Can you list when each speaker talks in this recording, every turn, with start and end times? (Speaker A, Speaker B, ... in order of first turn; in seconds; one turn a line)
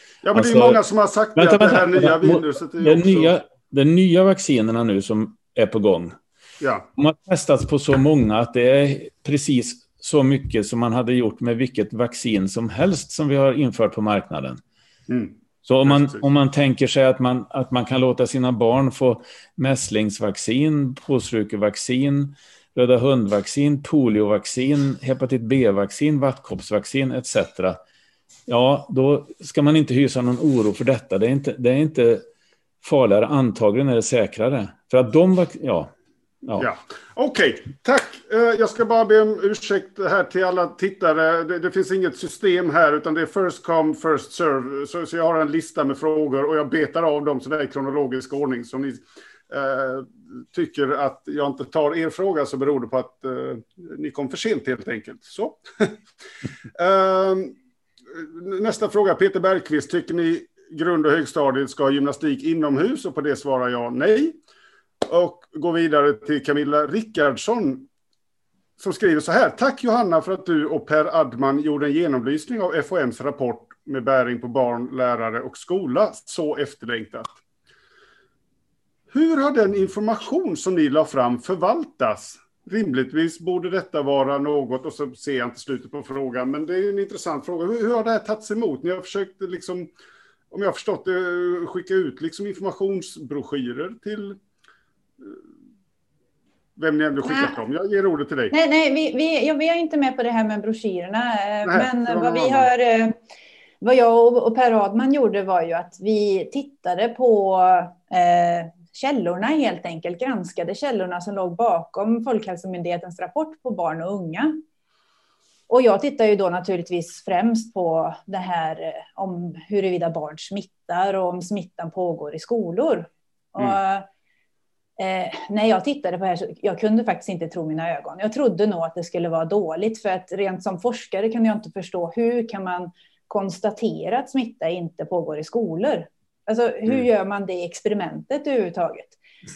Speaker A: 0.2-3.3
Speaker B: 0.3-0.8
Speaker B: 1.4-6.2
Speaker A: 6.6-6.9
Speaker B: 7.0-14.6
Speaker A: 15.1-16.3
Speaker B: 15.6-27.8
Speaker B: 28.5-32.2
Speaker B: 32.8-35.9
Speaker A: 36.6-56.0
Speaker A: 56.7-57.5
Speaker A: 58.1-64.3
Speaker A: 65.0-67.9
Speaker A: 68.8-77.3
Speaker A: 79.1-89.9
Speaker A: 90.5-94.4
Speaker A: 96.8-98.5
Speaker C: 97.3-97.5
Speaker C: 98.5-103.2
Speaker A: 101.6-102.7
Speaker C: 103.8-114.6
Speaker C: 115.7-124.1
Speaker C: 125.0-139.2